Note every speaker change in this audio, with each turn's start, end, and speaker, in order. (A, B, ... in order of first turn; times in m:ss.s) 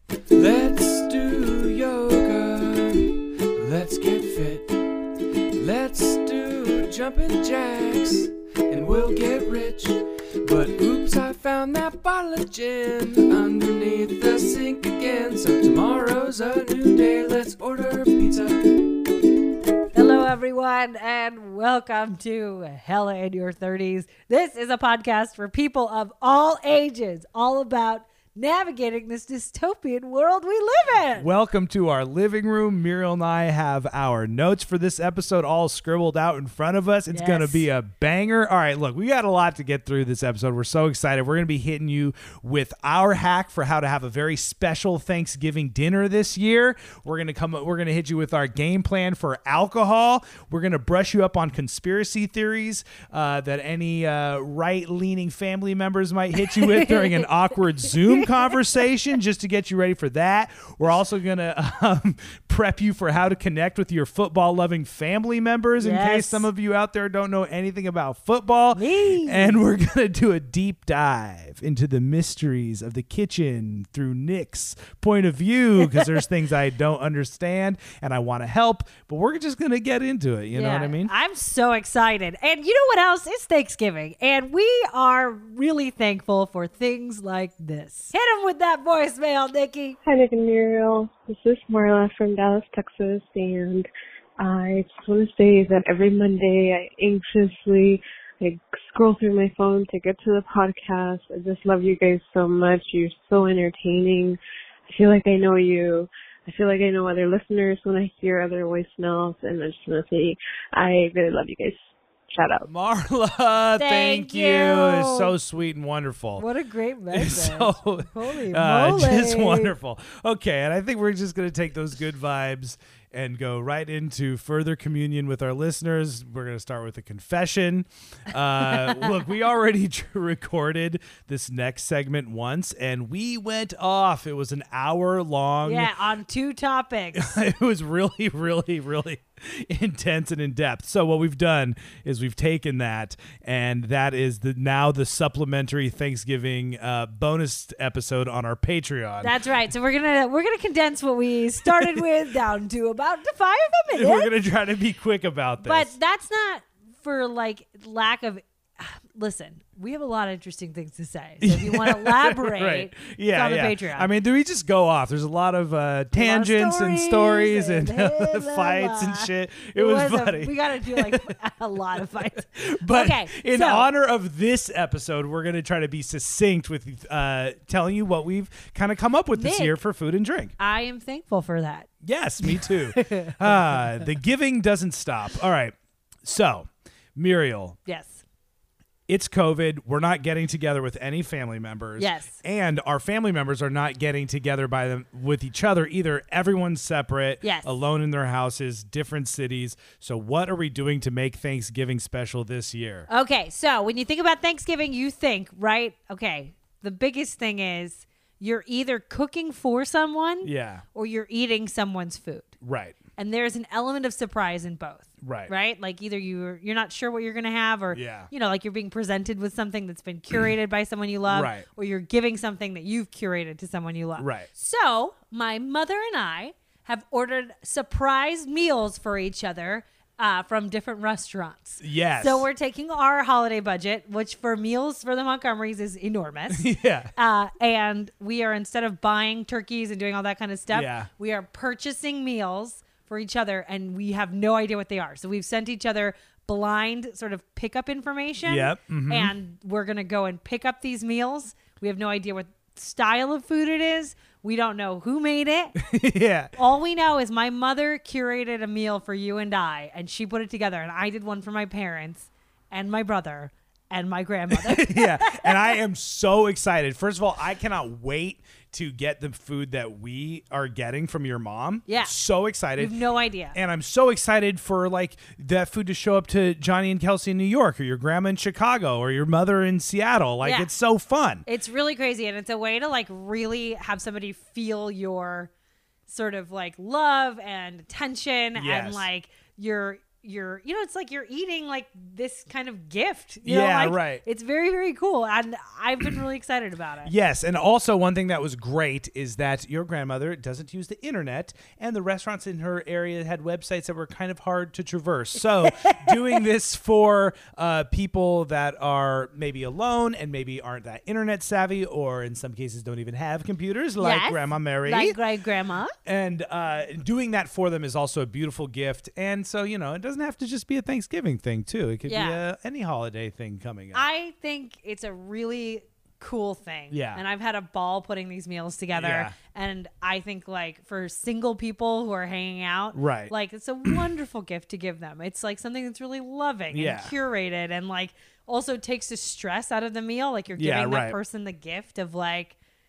0:00.3-0:04.8 A
0:05.6-0:18.9 A
0:19.9-0:31.3 B
0:31.2-1:21.1 C
0:37.1-0:37.7 B
0:56.4-0:57.3 B
0:58.0-0:58.5 B
1:05.8-1:06.5 B
1:08.8-1:09.6 B
1:15.8-1:16.1 B
1:20.5-1:30.0 B
1:30.0-1:33.9 D
1:34.4-1:44.4 D
1:44.9-1:52.7 D
1:52.6-1:56.4 C
1:53.8-1:55.4 B
1:56.4-1:59.7 B
1:57.1-2:15.9 C
2:08.6-2:09.2 B
2:15.6-2:17.4 B
2:17.1-2:29.4 C
2:29.2-2:34.3 B
2:33.9-2:36.0 C
2:35.6-2:44.1 B
2:41.4-2:51.3 C
2:46.1-2:53.9 B
2:52.5-3:00.5 C
2:59.3-2:59.8 B
3:00.6-3:04.1 B
3:02.0-3:07.8 C
3:07.9-3:08.2 B
3:09.1-3:23.1 C
3:12.0-3:12.4 B
3:17.4-3:17.8 B
3:23.1-3:32.5 B
3:30.4-3:30.8 C
3:32.6-3:33.0 C
3:33.2-4:15.8 B
3:35.2-3:35.5 C
3:37.9-3:38.3 C
3:41.3-3:41.7 C
3:44.2-3:44.5 C
3:51.8-3:52.5 C
3:56.5-3:57.1 C
4:00.7-4:01.1 C
4:08.4-4:09.3 C
4:15.8-4:16.5 C
4:16.5-4:25.8 B
4:24.5-4:33.0 C
4:31.9-4:32.1 B
4:32.8-4:33.6 B
4:33.5-4:41.5 C
4:40.4-4:40.7 B
4:41.5-4:45.5 B
4:46.1-4:57.1 B
4:48.6-4:49.1 C
4:53.4-4:54.2 C
4:57.0-5:15.2 C
5:05.6-5:06.4 B
5:14.0-5:15.9 B
5:16.0-5:24.1 C
5:22.0-5:22.4 B
5:23.9-5:42.6 B
5:26.9-5:27.2 C
5:29.0-5:29.4 C
5:32.9-5:33.3 C
5:36.7-5:37.1 C
5:40.6-5:41.2 C